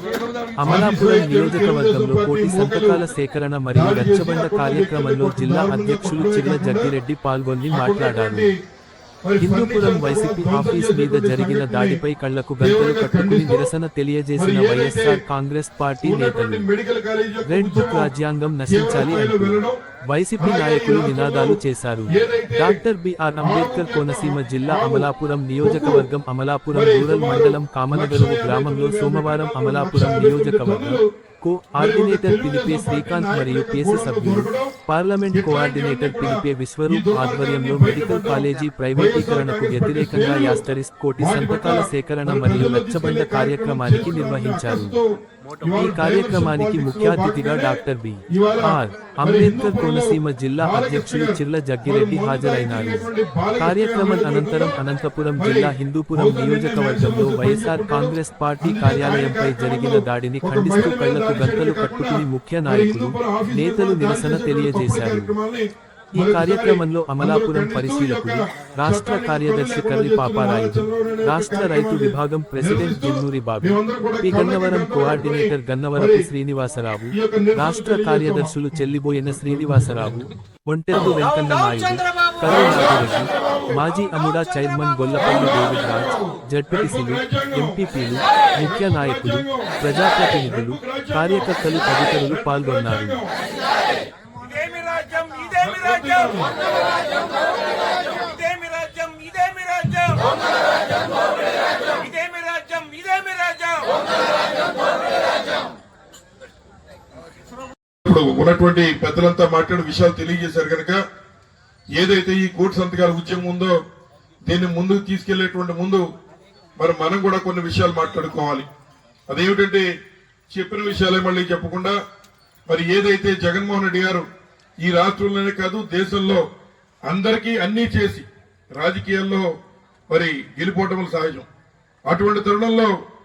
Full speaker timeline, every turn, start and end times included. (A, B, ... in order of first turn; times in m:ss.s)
0:00.6-0:08.5 A
0:00.6-0:03.0 B
0:03.7-0:06.9 B
0:07.7-0:08.6 B
0:09.2-0:12.0 B
0:09.4-0:16.6 A
0:12.6-0:13.7 B
0:14.4-0:15.2 B
0:16.0-0:18.1 B
0:17.4-0:45.0 A
0:18.7-0:19.8 B
0:20.4-0:21.6 B
0:22.1-0:22.8 B
0:23.4-0:25.1 B
0:25.6-0:26.1 B
0:26.7-0:31.1 B
0:31.8-0:34.8 B
0:35.3-0:40.6 B
0:41.2-0:45.1 B
0:45.6-0:54.8 B
0:45.6-1:05.3 A
0:55.4-1:16.3 B
1:06.1-1:33.2 A
1:17.1-1:18.6 B
1:19.4-1:20.2 B
1:22.4-1:23.8 B
1:25.2-1:27.8 B
1:28.6-1:29.8 B
1:30.4-1:33.3 B
1:34.5-1:36.4 C
1:34.6-1:35.0 A
1:35.6-1:36.5 B
1:37.7-1:40.5 C
1:41.9-1:44.0 C
1:48.0-1:51.0 B
1:52.0-1:53.8 B
1:54.4-1:56.0 B
1:56.8-1:58.7 B
1:59.3-1:59.9 B
2:00.5-2:02.0 B
2:02.7-2:04.3 B
2:04.8-2:06.4 B
2:07.1-2:09.5 B
2:10.1-2:11.5 B
2:12.1-2:12.9 B